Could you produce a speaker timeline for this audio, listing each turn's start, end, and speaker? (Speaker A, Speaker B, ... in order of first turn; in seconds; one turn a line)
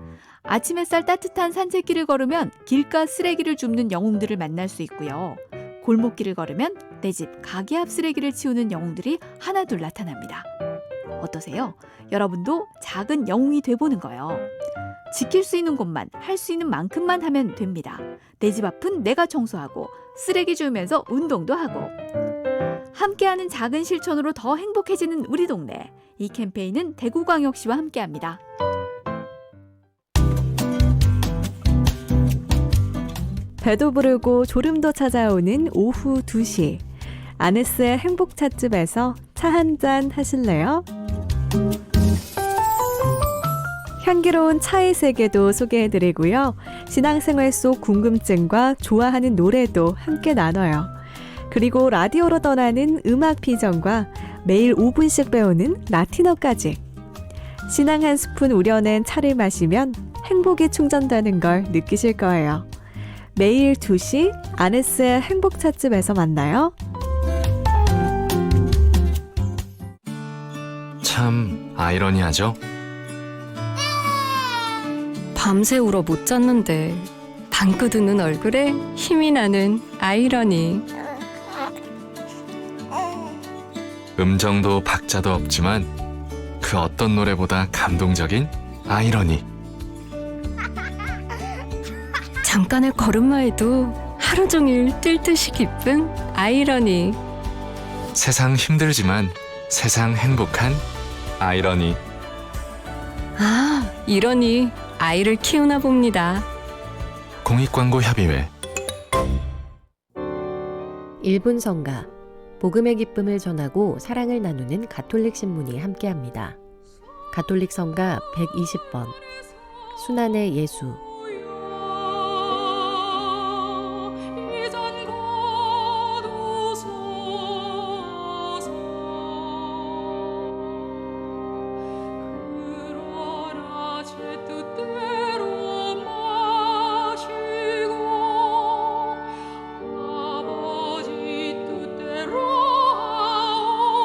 Speaker A: 0.5-10.5
Speaker A: 11.2-14.5
Speaker A: 15.1-21.9
Speaker A: 22.9-28.4
Speaker B: 33.6-36.8
Speaker B: 37.4-40.9
Speaker B: 44.0-50.9
Speaker B: 51.5-56.8
Speaker B: 57.7-62.7
Speaker B: 63.3-66.7
Speaker C: 71.0-72.6
Speaker D: 75.3-80.8
Speaker C: 84.2-85.9
Speaker C: 86.6-89.5
Speaker D: 92.4-97.2
Speaker C: 98.1-100.8
Speaker C: 101.4-102.0
Speaker D: 103.4-106.5
Speaker C: 107.4-108.5
Speaker E: 111.2-116.6
Speaker E: 117.3-119.2
Speaker E: 119.9-121.0